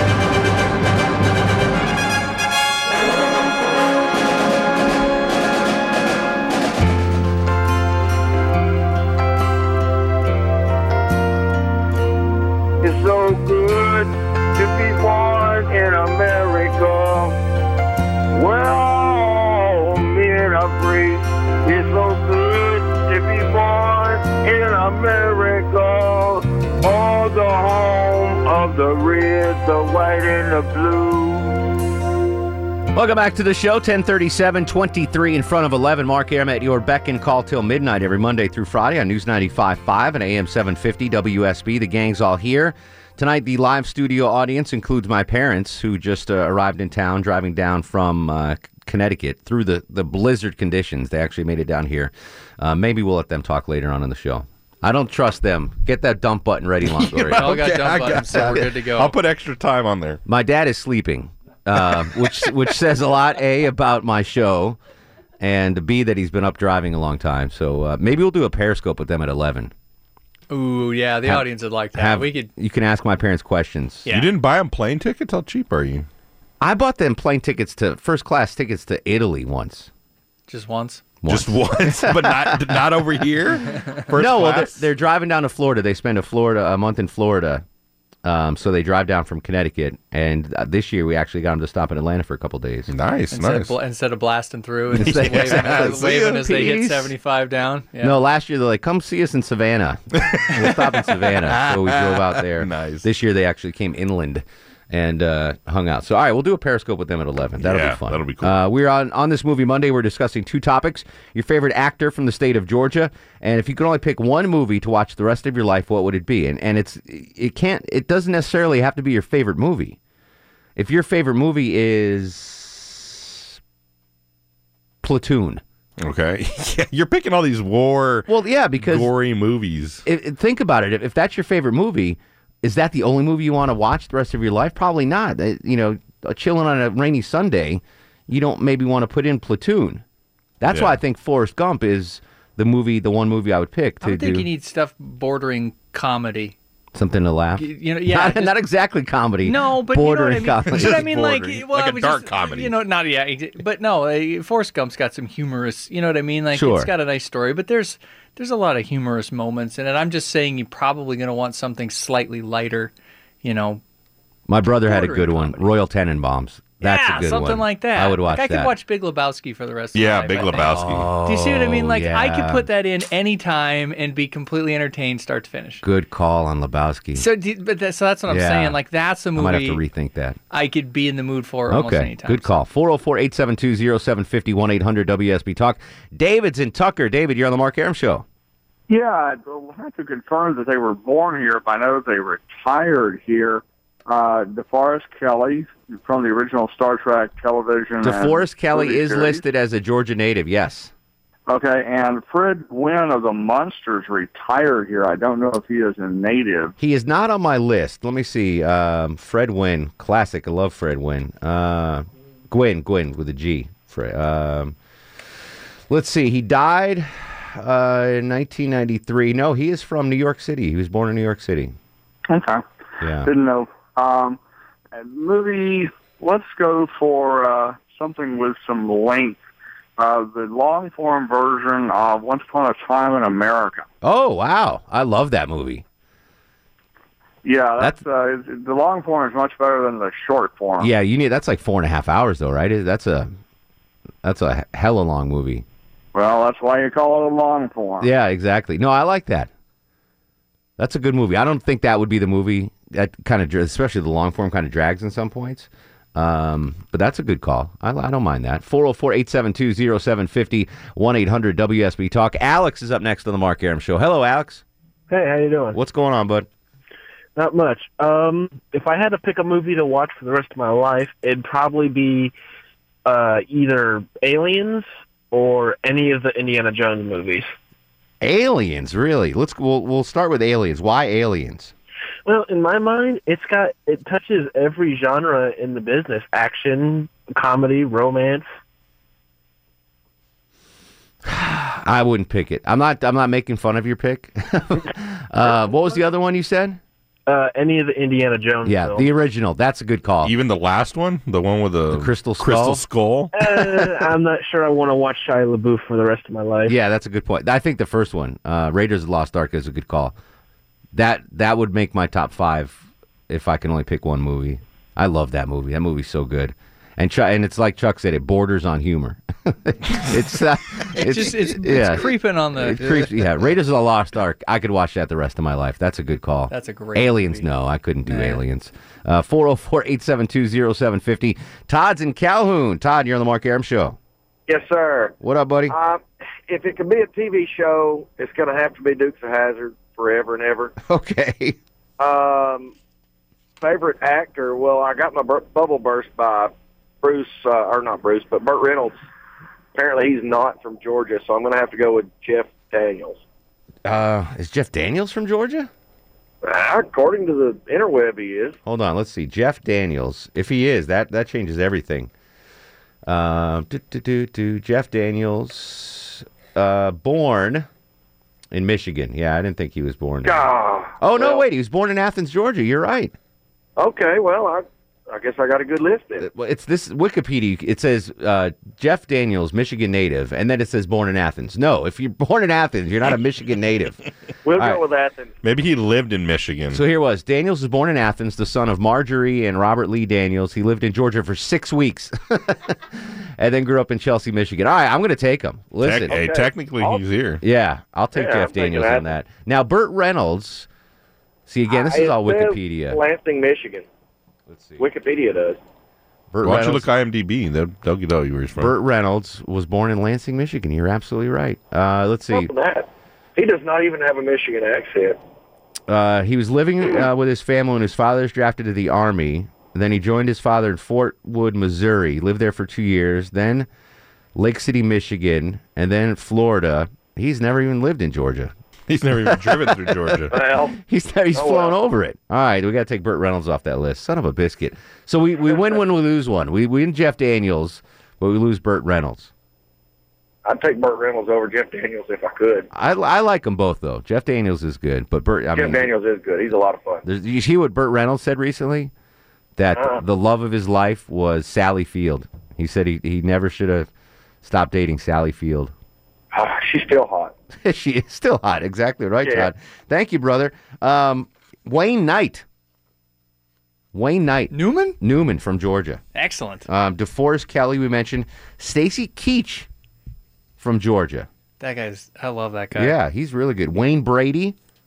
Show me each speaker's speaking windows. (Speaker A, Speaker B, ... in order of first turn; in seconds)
Speaker A: 12.8-17.4, 18.3-31.7
Speaker B: 32.9-57.8, 60.3-64.8, 65.4-69.7, 71.2-74.1, 76.6-79.9, 81.2-83.4, 84.1-87.6, 88.2-92.9, 94.9-97.1, 98.0-120.0, 120.8-123.6, 125.0-125.6, 128.3-129.1, 130.1-140.0, 140.6-144.5, 146.9-151.1, 156.5-156.9, 164.5-168.7, 170.6-172.7, 175.8-177.3, 178.3-178.8, 179.3-180.4, 181.7-188.2, 198.0-200.9, 206.8-214.8, 215.9-221.8, 223.0-223.3, 234.0-235.8, 240.8-243.3, 244.2-245.7, 248.0-249.5, 250.8-264.6, 265.7-266.5, 278.2-281.7, 291.2-296.8, 298.6-300.3, 301.9-302.8, 303.5-303.9, 306.7-310.1, 310.9-334.0, 335.2-335.8, 340.8-341.6, 353.9-355.7, 358.6-362.1, 363.1-367.7, 368.5-370.4, 371.0-373.1, 376.2-384.0, 384.6-384.8, 386.7-396.2, 397.4-400.7, 401.5-403.0, 404.5-404.8, 406.3-406.9, 408.6-412.5, 415.9-423.7, 424.4-428.5, 429.2-439.3, 442.7-445.9, 447.0-448.9, 449.6-453.9, 454.4-455.7, 457.6-462.4, 463.9-466.0, 466.7-469.7, 470.6-471.3, 472.8-474.6
Speaker C: 56.9-60.2, 74.1-76.1, 81.3-84.9, 92.9-93.8, 95.0-96.4, 100.2-103.0, 107.6-108.6, 126.0-130.0, 150.7-152.8, 169.9-171.1, 300.2-303.3, 385.4-386.9, 395.8-397.4, 406.4-408.7, 428.9-430.3
Speaker D: 57.3-59.1, 70.5-72.5, 80.5-81.0, 93.3-98.2, 144.0-146.6, 147.6-148.6, 149.4-162.9, 163.4-163.8, 164.8-165.7, 166.8-175.8, 177.2-179.8, 180.5-182.6, 320.9-323.2, 326.5-327.4, 328.1-328.4, 464.5-465.0, 466.1-466.7, 471.6-473.0
Speaker E: 188.9-199.4, 201.5-206.8, 222.3-222.7, 223.2-224.4, 224.9-229.4, 230.0-233.9, 237.4-240.9, 246.1-248.1
Speaker F: 265.1-265.8, 267.4-272.3, 273.1-277.5, 282.3-288.5, 297.3-299.1, 303.3-306.8
Speaker G: 334.5-335.1, 335.7-340.7, 342.0-342.7, 343.6-349.0, 349.8-353.2, 356.4-358.6, 370.2-371.4, 373.8-376.3, 384.4-385.3, 396.1-397.0, 398.1-399.1, 401.7-403.9, 404.8-405.6, 412.3-415.2, 430.3-430.8, 431.3-431.8, 440.4-442.7, 445.5-447.0, 449.8-450.0, 456.3-457.3, 459.2-459.5